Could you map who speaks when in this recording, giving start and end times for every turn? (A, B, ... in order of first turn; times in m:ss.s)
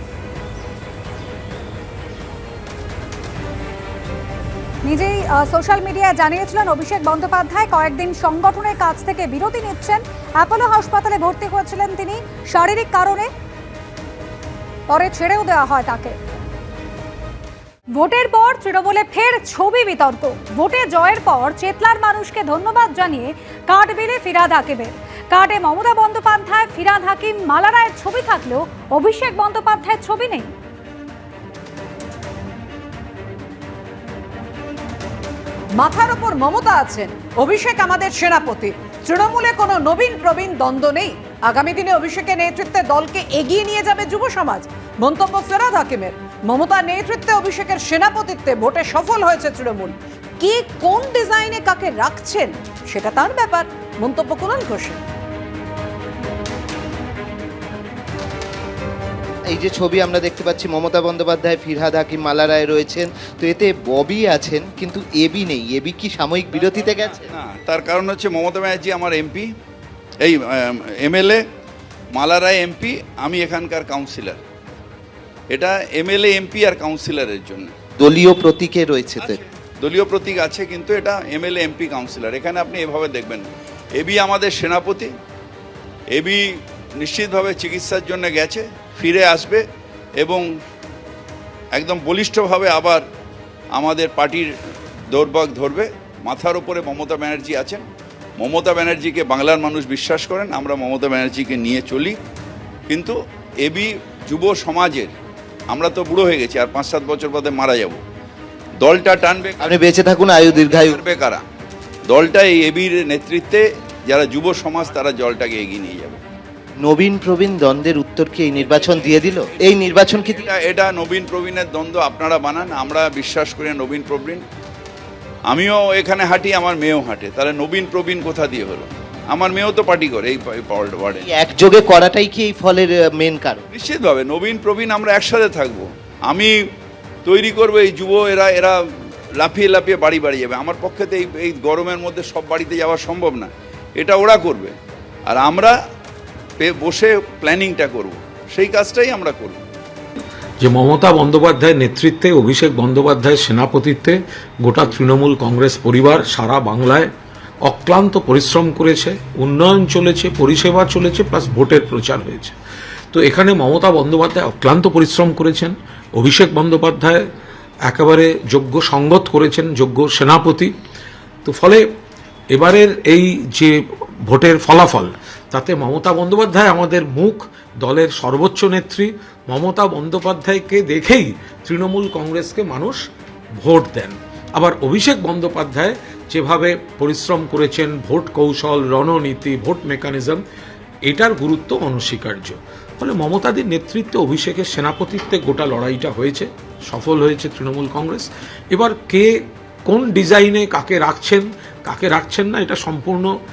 0:04.8-0:13.3 A
0:14.9-0:16.2 A
0:17.9-0:30.5 A
0:35.8-0:55.0 B
0:59.5-1:07.3 C
1:06.5-1:09.5 D
1:10.2-1:11.4 D
1:12.1-1:14.4 D
1:15.5-1:17.7 D
1:18.0-1:19.4 C
1:19.2-1:23.4 D
1:24.0-1:25.1 D
1:26.1-1:26.4 D
1:27.0-1:29.6 D
1:31.8-1:33.0 D
1:33.8-1:34.5 D
1:35.1-1:37.8 D
1:38.4-1:42.2 D
1:42.9-1:45.1 D
1:45.7-1:48.0 D
1:48.8-1:49.7 D
1:49.6-1:51.0 C
1:50.5-1:51.4 D
1:52.1-1:56.2 D
1:56.8-2:00.5 C
1:59.0-2:04.4 D
2:05.5-2:11.3 D
2:11.2-2:13.6 C
2:13.7-2:16.5 D
2:17.2-2:18.8 D
2:19.4-2:24.7 D
2:25.3-2:25.7 D
2:26.6-2:29.6 D
2:30.6-2:37.1 E
2:37.6-2:42.5 E
2:43.1-2:47.2 E
2:47.9-2:50.7 E
2:51.4-2:51.8 E
2:52.5-3:03.0 E
3:03.6-3:10.4 E
3:11.0-3:23.3 E